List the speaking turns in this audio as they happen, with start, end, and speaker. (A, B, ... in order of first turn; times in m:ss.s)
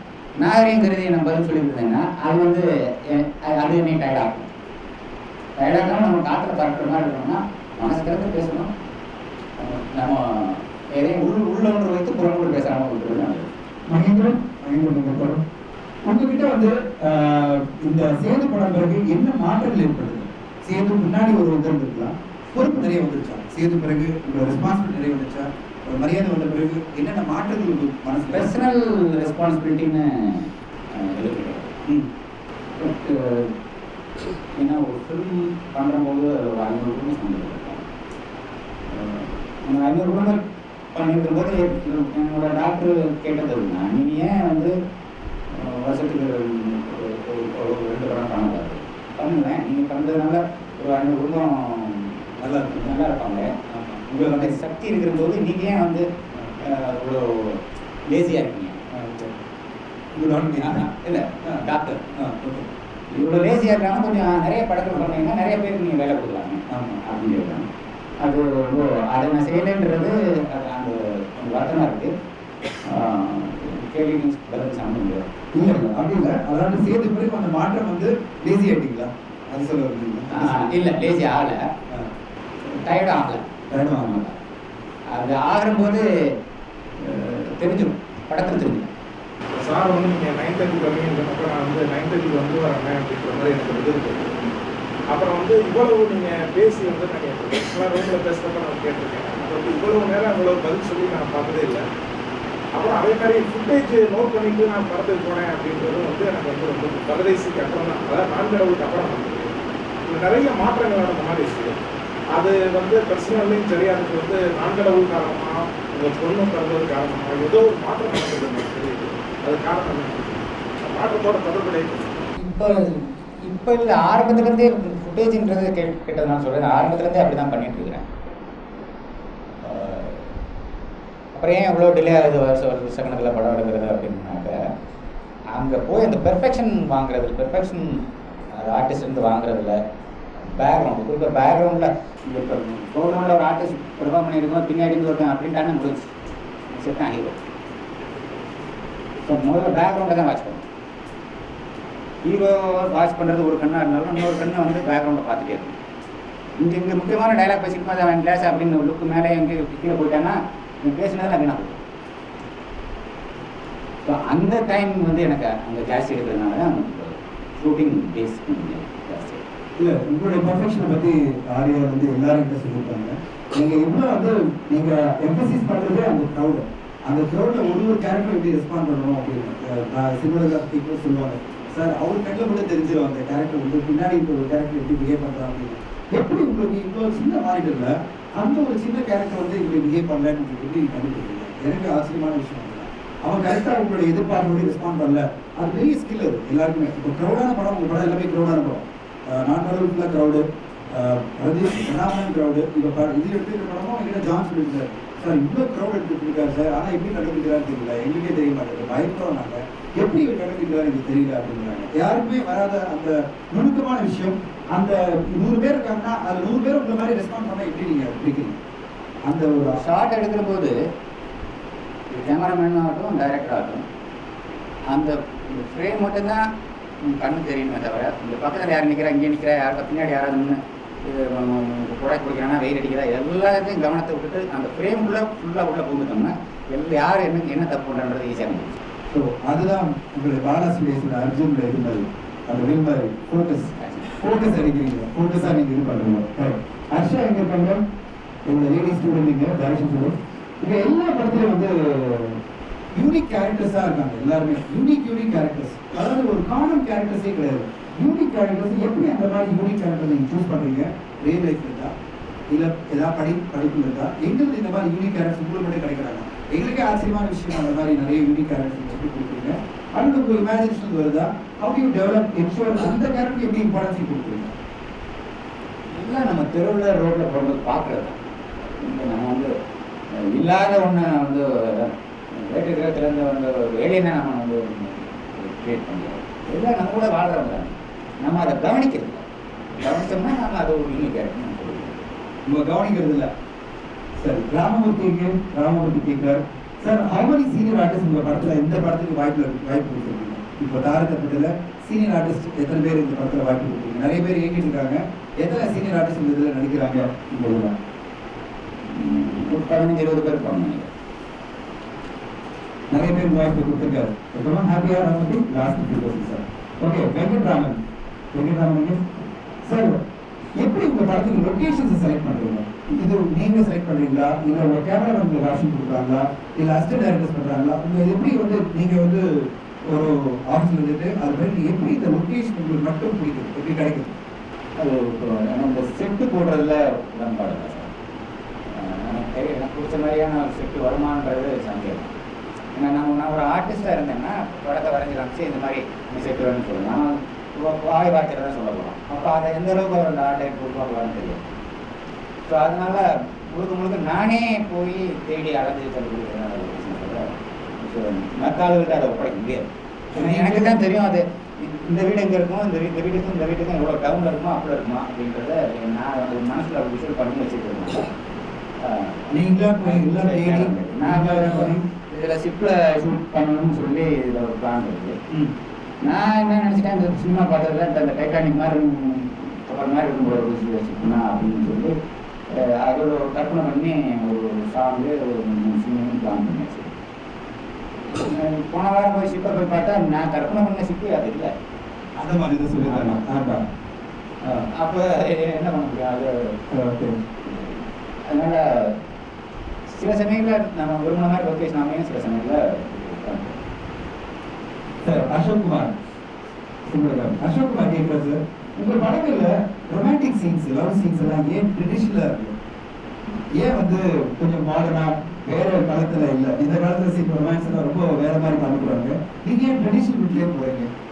0:00.4-0:04.5 A
0:05.6-0:08.7 A
0:09.6-0:13.5 A
0:13.9-0:15.4 B
0:16.0-0:28.5 B
0:28.3-0:31.7 A
0:32.7-0:33.5 A
0:34.5-0:37.9 A
0:38.9-0:40.4 A
0:40.9-0:44.8 A
0:45.5-0:52.2 A
0:52.4-0:53.0 B
0:52.7-0:56.1 A
0:53.8-0:54.6 B
0:56.6-0:58.8 A
0:58.9-0:59.4 B
1:00.1-1:00.8 B
1:00.6-1:02.1 A
1:02.1-1:02.7 B
1:03.1-1:07.7 A
1:06.7-1:07.0 B
1:08.2-1:12.1 A
1:12.8-1:15.3 A
1:15.5-1:20.7 B
1:20.3-1:21.7 A
1:22.7-1:24.4 A
1:23.7-1:24.2 B
1:25.1-1:26.3 A
1:27.0-1:28.9 A
1:29.5-1:34.3 C
1:35.1-1:41.8 C
1:42.7-1:51.8 C
1:52.3-2:02.3 C
2:02.4-2:08.0 A
2:09.6-2:10.2 A
2:11.3-2:14.7 A
2:15.5-2:19.8 A
2:20.4-2:26.1 A
2:26.7-2:27.4 A
2:29.2-2:30.6 A
2:32.2-2:35.8 A
2:36.6-2:41.8 A
2:44.0-2:49.4 A
2:49.8-3:38.6 B
3:39.2-3:39.8 B
3:39.7-3:40.8 A
3:42.1-3:43.8 A
3:44.9-3:46.5 A
3:47.0-3:58.8 A
3:59.1-4:07.8 B
4:03.8-4:04.1 A
4:08.4-4:12.4 B
4:12.9-4:21.9 B
4:22.5-4:34.5 B
4:35.9-4:39.5 A
4:40.1-4:49.2 A
4:49.8-4:52.0 A
4:52.5-4:53.3 B
4:54.2-5:07.8 B
5:08.9-5:10.9 A
5:12.9-5:17.8 B
5:18.3-5:19.1 B
5:19.6-5:20.0 B
5:20.6-5:34.2 B
5:34.8-5:37.9 A
5:38.7-5:42.1 A
5:42.7-5:51.4 A
5:52.4-6:08.1 A
6:00.1-6:00.8 B
6:08.8-6:09.3 A
6:09.3-6:11.8 B
6:09.8-6:15.2 A
6:16.0-6:21.9 A
6:22.5-6:26.9 A
6:28.1-6:31.5 A
6:32.2-6:33.6 B
6:32.8-6:33.2 A
6:34.4-6:34.7 B
6:34.7-6:36.6 A
6:36.7-6:37.2 B
6:37.5-6:37.7 A
6:38.2-6:39.0 A
6:39.9-6:43.6 A
6:45.0-6:45.9 B
6:46.8-6:52.6 B
6:53.5-7:00.9 B